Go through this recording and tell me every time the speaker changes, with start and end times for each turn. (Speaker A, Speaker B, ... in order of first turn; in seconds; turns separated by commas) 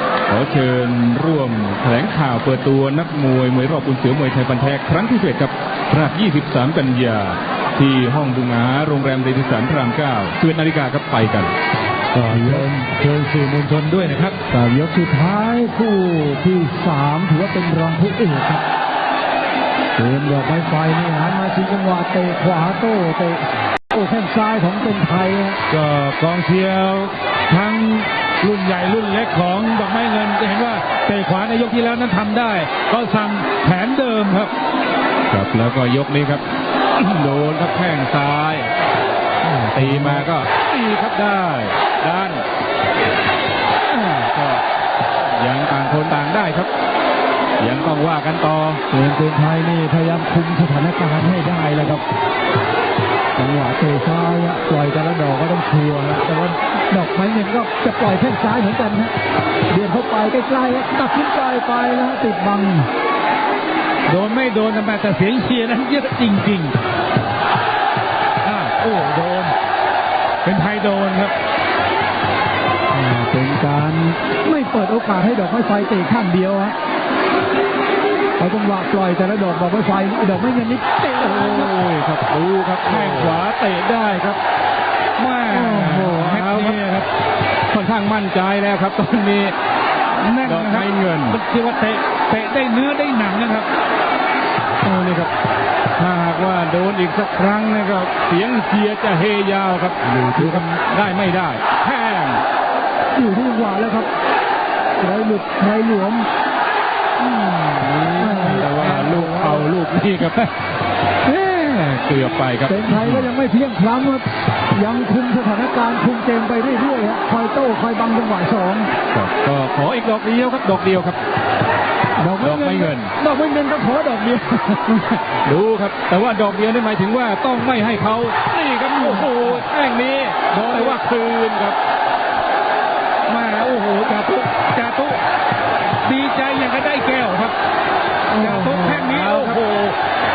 Speaker A: 0.3-11.5, Speaker B: 12.1-14.4, Speaker C: 12.3-12.8, Speaker C: 14.5-18.6, Speaker C: 20.0-25.6, Speaker B: 25.7-34.5, Speaker A: 35.3-36.5, Speaker A: 37.0-38.7, Speaker C: 39.4-40.3, Speaker A: 39.7-42.5, Speaker A: 43.9-44.6, Speaker A: 45.2-46.7, Speaker A: 47.6-48.8, Speaker C: 48.9-52.0, Speaker C: 53.4-59.1, Speaker C: 59.7-62.9, Speaker B: 64.1-66.8, Speaker B: 68.4-69.5, Speaker B: 70.4-71.3, Speaker C: 72.9-76.8, Speaker C: 78.4-81.7, Speaker A: 81.2-84.4, Speaker B: 82.8-83.4, Speaker B: 85.2-87.1, Speaker C: 85.5-86.1, Speaker A: 85.7-86.8, Speaker A: 87.7-89.5, Speaker B: 90.1-93.7, Speaker A: 90.4-91.4, Speaker A: 94.8-95.3, Speaker A: 96.0-102.4, Speaker C: 100.0-100.8, Speaker C: 103.2-104.1, Speaker C: 105.0-106.3, Speaker B: 107.6-108.4, Speaker A: 108.2-110.5, Speaker C: 108.2-109.7, Speaker A: 111.2-113.3, Speaker C: 112.7-118.9, Speaker A: 119.1-121.2, Speaker C: 122.2-125.2, Speaker A: 122.4-123.1, Speaker A: 125.4-131.8, Speaker B: 128.9-129.6, Speaker B: 130.5-131.0, Speaker B: 133.3-135.2, Speaker B: 136.0-137.6, Speaker C: 138.3-139.1, Speaker B: 138.4-140.0, Speaker A: 139.0-139.6